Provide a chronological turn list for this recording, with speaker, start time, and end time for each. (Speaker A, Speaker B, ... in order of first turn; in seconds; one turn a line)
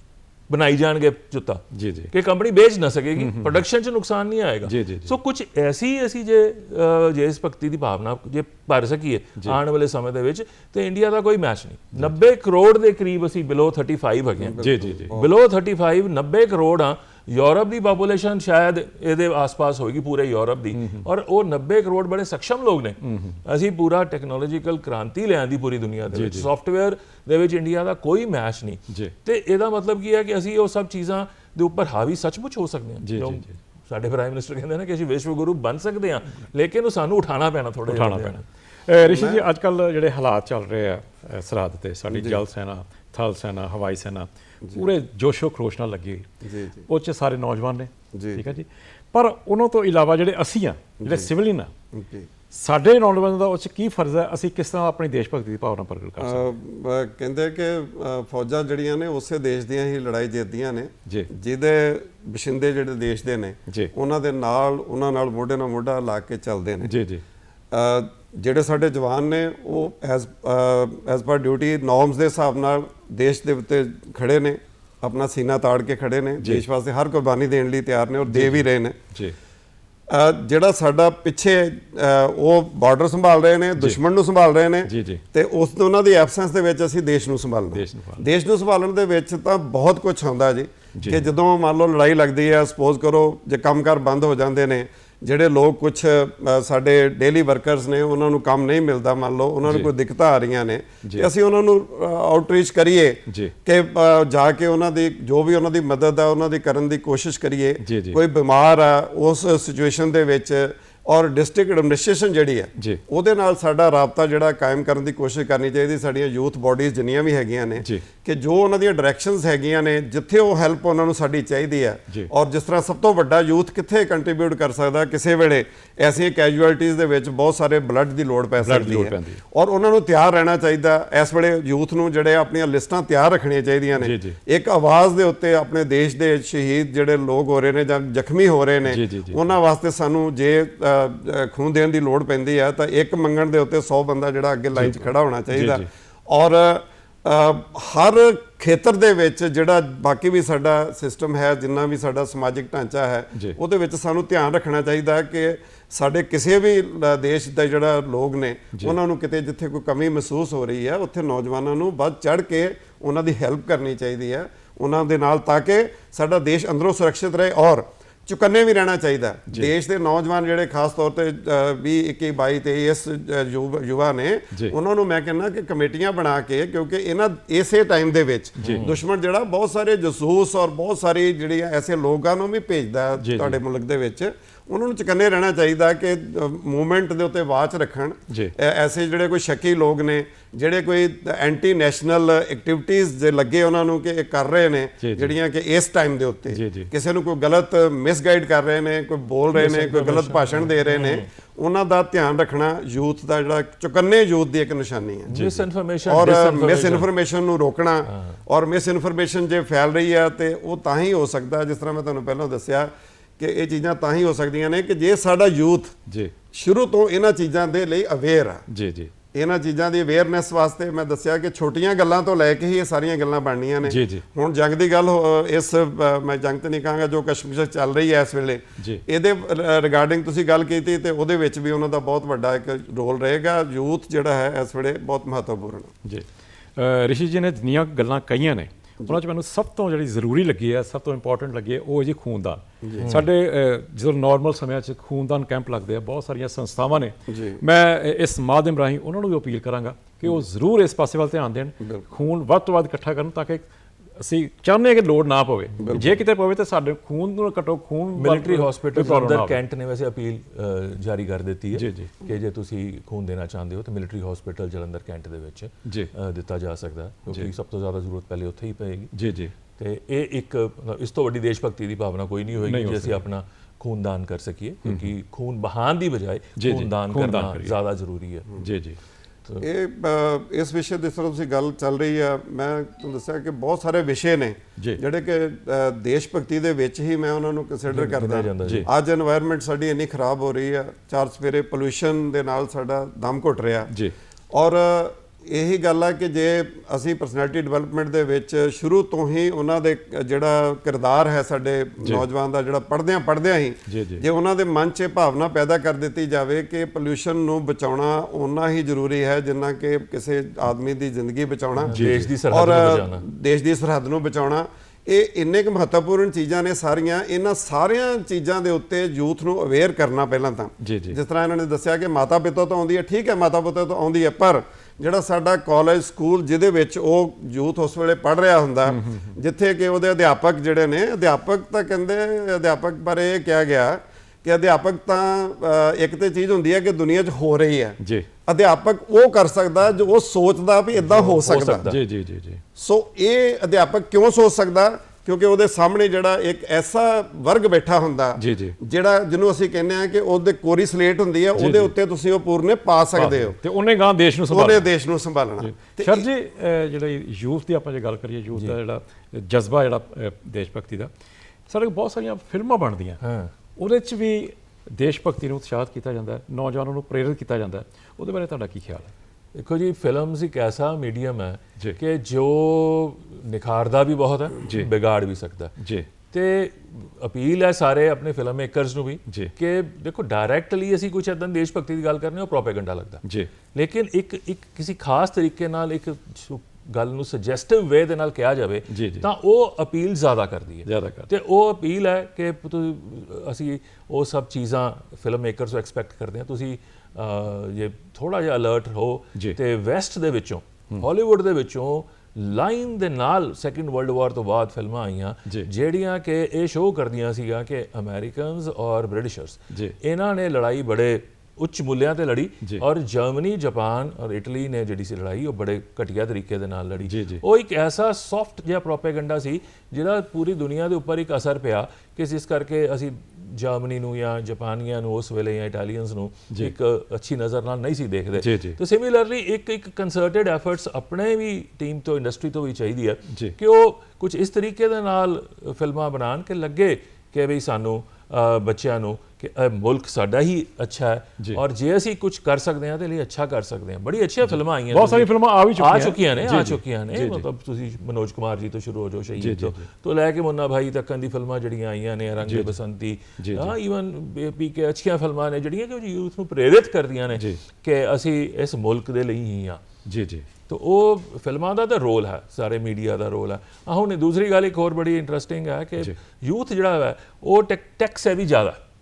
Speaker A: 0.5-38.4
Speaker B: 1.7-2.1
Speaker B: 3.2-3.6
Speaker B: 4.6-5.1
Speaker C: 14.5-15.3
Speaker B: 14.6-15.1
Speaker B: 20.7-21.1
Speaker B: 23.0-23.4
Speaker B: 26.1-26.5
Speaker B: 33.0-33.5
Speaker B: 37.9-46.3
Speaker C: 39.0-39.4
Speaker C: 42.1-42.4
Speaker C: 46.4-46.8
Speaker B: 46.9-51.7
Speaker C: 48.1-48.4
Speaker C: 51.0-51.3
Speaker C: 51.9-52.3
Speaker B: 52.5-56.5
Speaker C: 56.2-66.9
Speaker B: 66.8-67.2
Speaker C: 67.7-79.0
Speaker B: 76.4-76.6
Speaker B: 78.3-79.3
Speaker C: 80.1-205.3
Speaker B: 84.8-85.2
Speaker B: 87.7-88.3
Speaker B: 91.0-91.3
Speaker B: 99.6-99.9
Speaker B: 101.0-101.3
Speaker B: 103.3-103.5
Speaker B: 107.8-108.2
Speaker B: 128.6-129.4
Speaker B: 134.0-134.4
Speaker B: 138.9-139.4
Speaker B: 144.7-145.9
Speaker B: 178.6-179.0
Speaker A: 178.6-178.9
Speaker B: 183.2-183.6
Speaker B: 188.3-188.5
Speaker B: 195.0-195.3
Speaker B: 196.5-196.9
Speaker A: 199.5-201.3
Speaker B: 205.3-205.6
Speaker A: 205.3-207.1
Speaker C: 206.1-215.9
Speaker A: 208.1-208.3
Speaker B: 216.1-216.3
Speaker C: 216.5-218.6
Speaker B: 218.7-219.1
Speaker C: 219.3-235.9
Speaker B: 223.8-224.2
Speaker B: 228.8-229.0
Speaker B: 236.0-259.6
Speaker C: 242.8-243.2
Speaker C: 247.3-247.6
Speaker C: 255.8-256.1
Speaker A: 258.1-269.1
Speaker B: 261.7-262.1
Speaker B: 265.8-266.1
Speaker B: 269.1-269.5
Speaker A: 269.8-278.4
Speaker B: 272.7-273.2
Speaker B: 274.8-275.1
Speaker B: 276.6-277.8
Speaker B: 278.5-279.0
Speaker C: 279.6-293.9
Speaker A: 287.9-288.9
Speaker C: 294.5-341.9
Speaker B: 302.0-302.2
Speaker B: 303.9-304.2
Speaker A: 311.8-313.2
Speaker B: 311.9-312.3
Speaker B: 320.8-321.2
Speaker B: 328.9-329.3
Speaker B: 338.0-338.3
Speaker A: 341.0-342.0
Speaker B: 341.8-342.6
Speaker C: 342.8-353.6
Speaker B: 348.4-348.8
Speaker B: 351.6-351.9
Speaker B: 353.1-354.9
Speaker C: 354.5-356.2
Speaker B: 355.6-361.1
Speaker B: 361.7-363.2
Speaker A: 363.2-363.5
Speaker B: 363.8-369.1
Speaker A: 369.5-375.7
Speaker B: 375.8-376.1
Speaker A: 376.3-459.8
Speaker B: 379.3-379.5
Speaker B: 383.2-383.5
Speaker B: 388.9-389.3
Speaker B: 390.8-391.3
Speaker B: 409.7-409.9
Speaker B: 417.1-417.4
Speaker B: 428.4-428.8
Speaker B: 433.3-433.5
Speaker B: 444.4-447.4
Speaker B: 449.4-449.8
Speaker B: 452.4-452.7
Speaker B: 453.4-453.7
Speaker B: 457.3-457.6
Speaker B: 460.0-460.4
Speaker A: 460.7-468.8